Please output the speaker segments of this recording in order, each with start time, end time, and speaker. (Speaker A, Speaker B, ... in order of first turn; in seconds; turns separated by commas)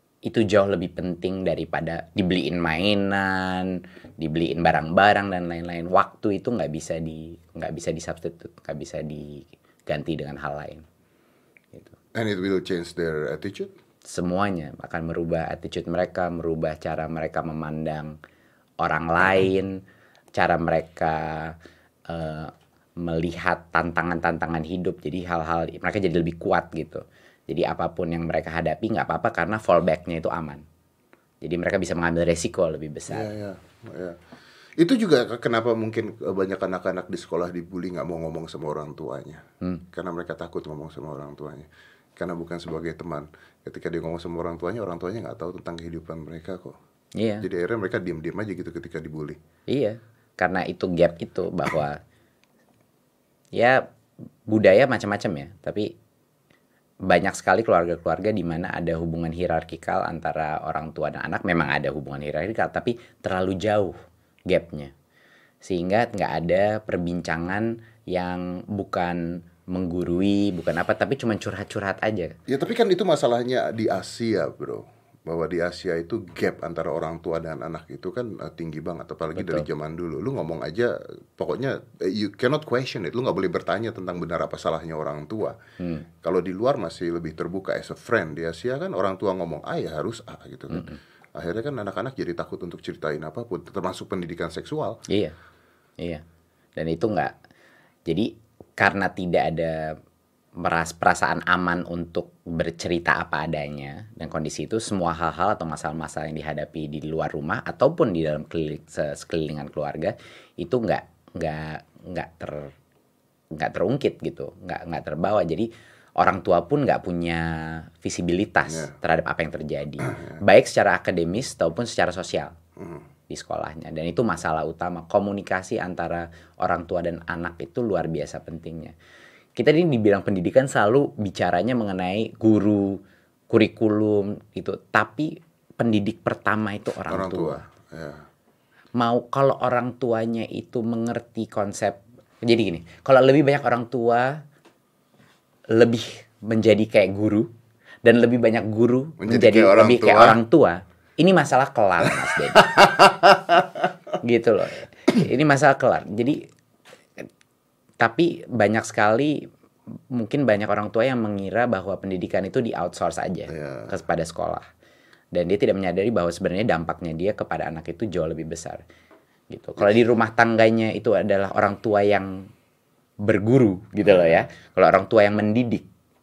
Speaker A: 0.2-10.8, Speaker B: 12.1-13.7, Speaker A: 14.0-18.1, Speaker A: 18.8-19.7, Speaker A: 20.3-21.6, Speaker A: 22.1-30.6, Speaker A: 31.4-33.3, Speaker B: 33.1-34.2, Speaker B: 34.8-46.8, Speaker A: 47.1-47.5, Speaker B: 47.4-49.4, Speaker A: 49.7-52.0, Speaker A: 53.5-53.8, Speaker A: 54.5-55.9, Speaker A: 57.0-64.0, Speaker A: 64.5-64.9, Speaker A: 65.6-72.3, Speaker B: 72.5-85.6, Speaker A: 79.3-79.7, Speaker A: 85.8-86.0, Speaker B: 86.2-95.0, Speaker A: 90.7-91.0, Speaker A: 95.1-95.3, Speaker A: 96.0-96.2, Speaker A: 96.8-97.3, Speaker A: 98.1-100.0, Speaker A: 100.6-112.7, Speaker A: 113.5-122.5, Speaker B: 118.7-118.9, Speaker B: 120.0-120.4, Speaker B: 122.8-123.0, Speaker A: 123.3-128.9, Speaker A: 129.6-137.6, Speaker B: 137.1-138.2, Speaker A: 139.0-144.4, Speaker A: 145.7-147.5, Speaker A: 148.0-152.7, Speaker B: 149.2-150.4, Speaker B: 152.5-153.8, Speaker A: 154.2-156.4, Speaker A: 158.0-159.4, Speaker A: 160.1-164.7, Speaker B: 163.5-163.9, Speaker A: 165.3-168.8, Speaker A: 169.5-172.5, Speaker A: 173.2-175.8, Speaker B: 174.0-174.4